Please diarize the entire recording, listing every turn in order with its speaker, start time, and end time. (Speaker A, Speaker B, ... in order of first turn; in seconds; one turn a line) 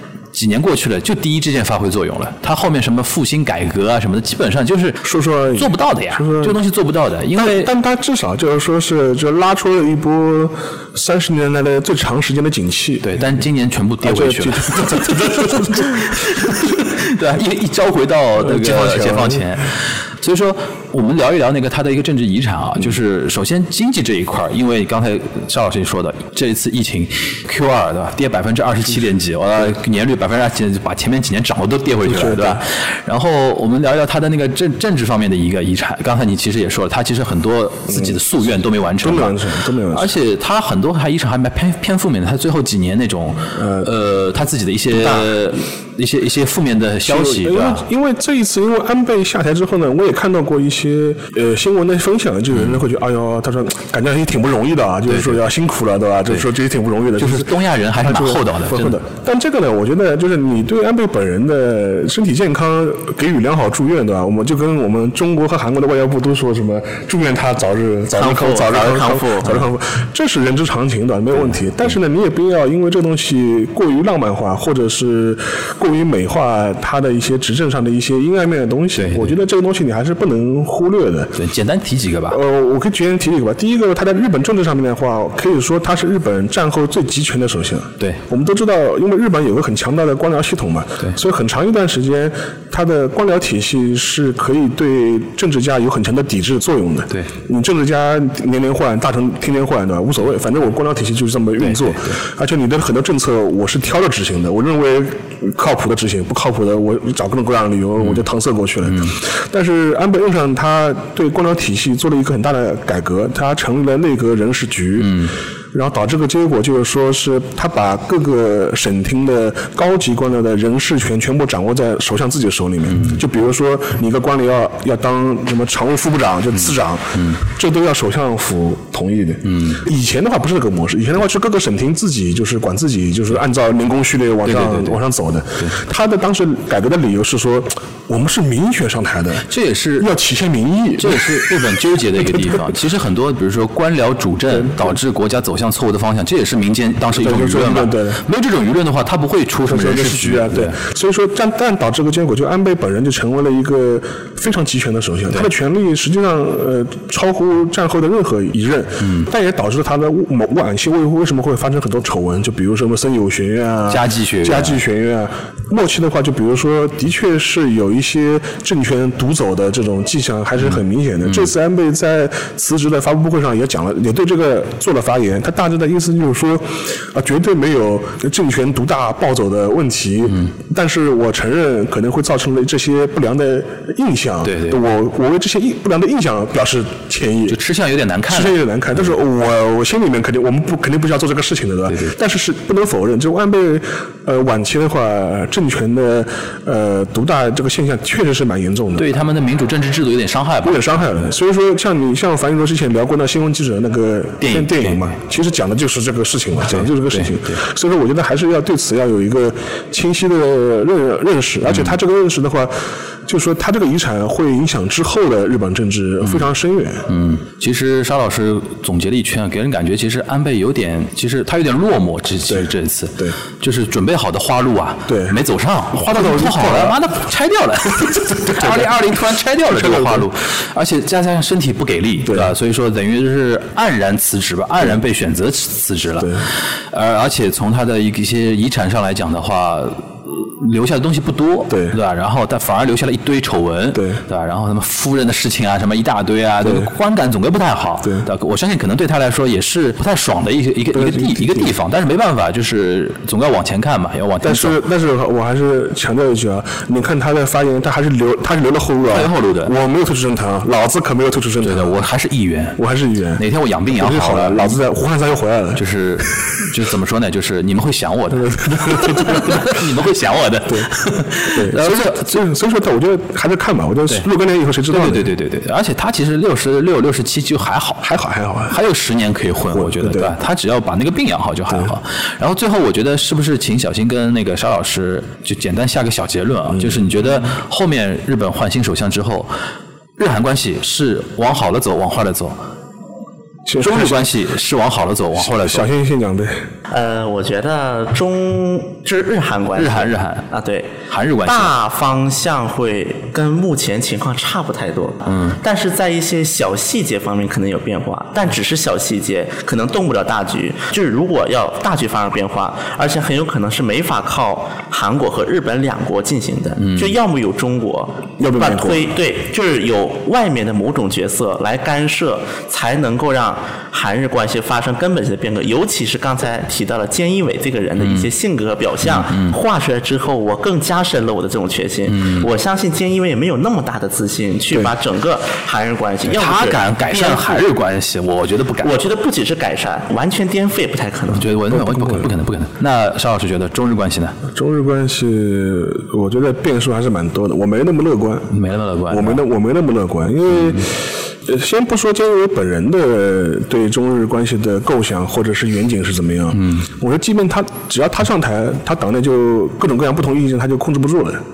Speaker A: 0.3-7.7
Speaker B: 5.0-6.6
Speaker B: 7.3-13.2
Speaker A: 13.0-39.4
Speaker B: 14.0-16.2
Speaker B: 18.4-19.5
Speaker B: 32.0-32.6
Speaker B: 37.9-38.2
Speaker B: 39.0-40.1
Speaker A: 39.9-47.8
Speaker B: 43.5-43.9
Speaker B: 44.9-45.3
Speaker B: 47.0-81.4
Speaker A: 55.1-55.4
Speaker A: 57.2-59.0
Speaker C: 68.2-69.7
Speaker A: 79.0-79.3
Speaker A: 81.4-82.4
Speaker B: 82.3-139.5
Speaker A: 101.6-102.2
Speaker A: 108.9-109.1
Speaker A: 115.0-115.3
Speaker A: 122.9-123.2
Speaker A: 126.7-127.4
Speaker A: 129.4-129.8
Speaker A: 134.4-135.0
Speaker A: 139.5-140.1
Speaker B: 140.0-141.7
Speaker A: 141.0-150.8
Speaker B: 142.2-142.8
Speaker B: 144.5-145.0
Speaker B: 147.1-148.2
Speaker B: 149.7-187.6
Speaker A: 159.0-159.3
Speaker A: 163.9-164.8
Speaker A: 171.2-171.5
Speaker A: 184.4-184.8
Speaker A: 187.5-188.6
Speaker B: 188.3-199.1
Speaker A: 199.0-200.8
Speaker B: 200.6-217.1
Speaker A: 204.4-205.1
Speaker A: 207.1-207.3
Speaker A: 211.7-211.9
Speaker A: 217.1-254.8
Speaker B: 222.5-223.4
Speaker B: 225.1-225.4
Speaker B: 225.9-227.0
Speaker B: 228.2-228.9
Speaker B: 229.7-230.3
Speaker B: 232.3-232.6
Speaker B: 236.2-236.5
Speaker B: 241.7-242.0
Speaker B: 243.9-244.2
Speaker B: 246.6-246.9
Speaker B: 250.9-251.7
Speaker B: 254.4-262.0
Speaker A: 259.1-259.7
Speaker A: 261.6-262.8
Speaker B: 262.8-265.9
Speaker A: 263.4-264.8
Speaker A: 265.8-272.4
Speaker B: 268.4-269.7
Speaker B: 271.5-275.3
Speaker A: 274.9-278.1
Speaker B: 278.0-278.8
Speaker A: 278.7-289.5
Speaker B: 279.7-280.4
Speaker B: 286.7-287.0
Speaker A: 290.2-292.6
Speaker B: 293.7-294.3
Speaker A: 293.8-295.9
Speaker B: 295.4-296.7
Speaker C: 296.9-300.9
Speaker A: 299.8-300.5
Speaker A: 301.1-301.7
Speaker C: 301.4-337.7
Speaker A: 305.3-305.6
Speaker A: 316.8-317.1
Speaker B: 318.4-319.1
Speaker A: 328.0-328.3
Speaker A: 329.0-329.6
Speaker A: 332.1-332.5
Speaker A: 336.3-339.1
Speaker C: 338.8-341.5
Speaker A: 341.3-344.4
Speaker B: 341.7-342.3
Speaker B: 344.5-348.5
Speaker A: 348.5-349.4
Speaker B: 349.1-361.4
Speaker A: 350.5-350.8
Speaker A: 356.5-356.9